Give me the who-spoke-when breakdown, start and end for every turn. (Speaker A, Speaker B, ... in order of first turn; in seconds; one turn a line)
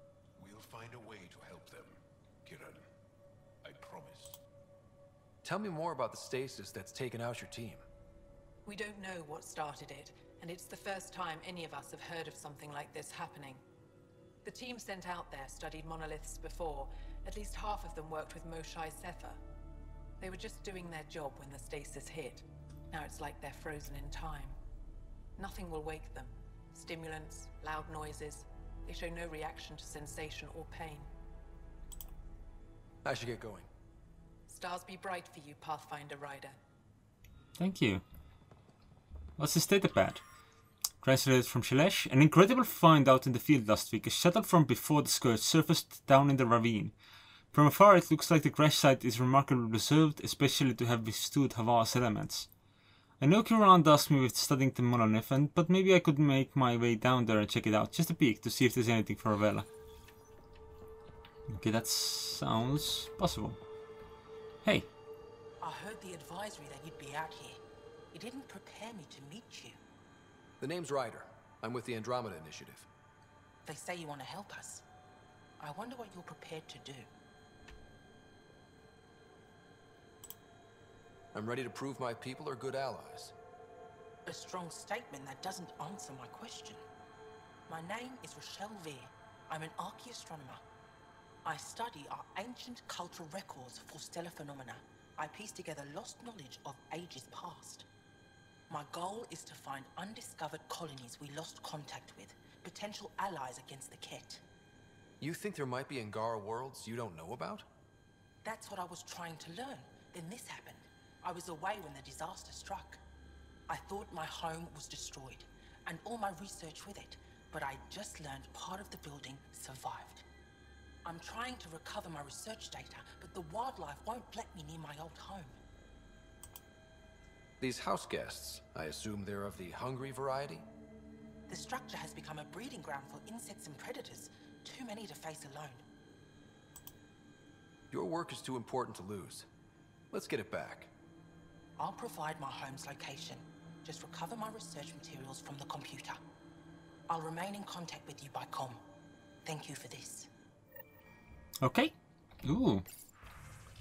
Speaker A: 0.4-2.9
Speaker A: 3.6-4.4
Speaker B: 5.4-7.8
Speaker C: 8.6-13.6
Speaker C: 14.4-19.4
Speaker C: 20.2-24.6
Speaker C: 25.4-31.1
Speaker B: 33.0-33.7
Speaker C: 34.5-36.6
Speaker D: 37.6-38.0
Speaker D: 39.4-40.2
Speaker D: 41.0-46.9
Speaker D: 47.5-52.5
Speaker D: 53.2-59.7
Speaker D: 61.5-63.6
Speaker E: 65.6-69.8
Speaker B: 70.6-72.9
Speaker E: 73.6-74.8
Speaker E: 75.6-77.1
Speaker B: 81.3-83.3
Speaker E: 84.2-86.8
Speaker E: 87.7-90.6
Speaker E: 91.4-97.8
Speaker E: 98.7-104.4
Speaker B: 105.2-107.7
Speaker E: 108.4-113.0
Speaker E: 113.7-120.2
Speaker E: 121.0-125.6
Speaker B: 127.6-130.6
Speaker E: 131.5-135.8
Speaker B: 137.9-139.5
Speaker B: 140.1-140.9
Speaker E: 141.8-146.2
Speaker E: 147.1-148.8
Speaker E: 149.4-150.3
Speaker D: 151.6-152.8